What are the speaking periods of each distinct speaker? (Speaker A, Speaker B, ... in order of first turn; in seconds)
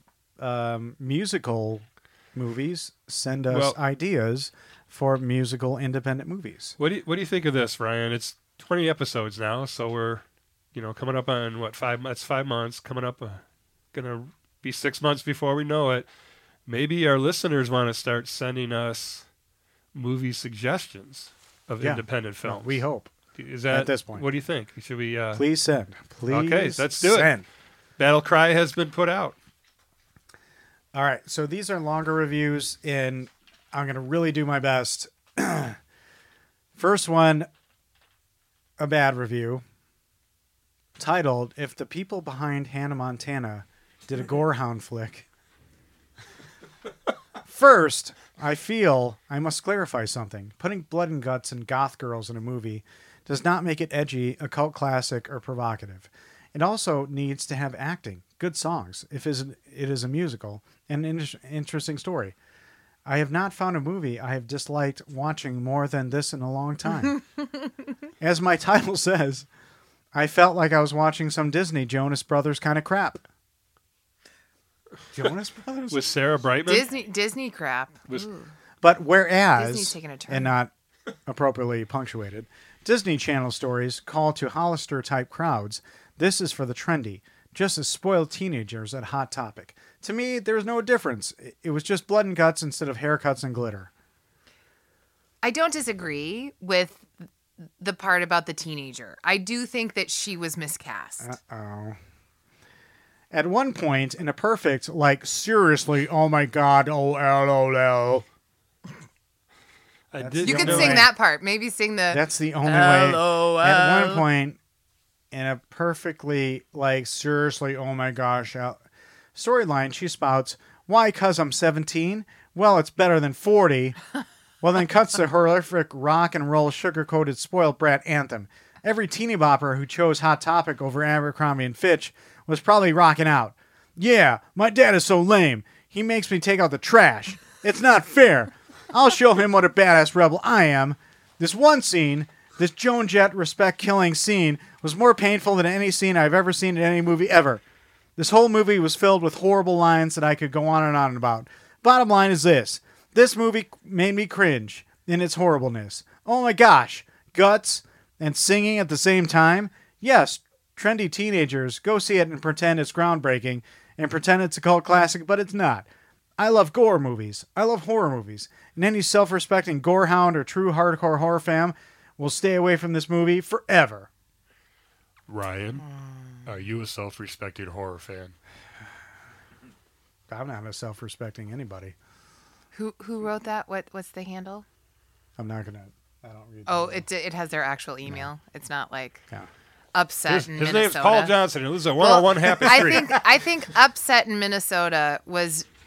Speaker A: 0.4-6.8, 21.8-23.1, 23.7-24.2, 25.3-27.4, 30.9-35.8, 36.7-37.5, 38.8-39.6, 41.0-45.3, 47.4-62.3, 63.0-67.2, 68.2-69.5, 70.1-73.2, 75.1-76.1, 78.8-80.7, 81.2-93.9, 101.2-102.0, 103.3-108.2, 110.2-111.1, 112.1-114.6, 115.3-118.8, 119.3-124.0, 124.6-147.6, 148.2-165.8, 166.4-174.1, 180.3-181.9, 185.4-187.0, 192.6-193.0
Speaker B: 3.5-3.8, 6.8-16.1, 16.6-19.2, 19.9-22.8, 23.3-25.4, 26.3-27.3, 28.0-29.4, 75.9-76.8, 110.1-111.1, 175.3-175.8, 176.4-178.3, 190.3-193.2
Speaker C: 76.7-78.5, 79.5-80.5, 95.4-97.1, 97.8-101.3, 110.4-114.2, 175.9-176.4, 182.7-184.6, 186.7-189.2, 189.9-191.3, 192.0-195.7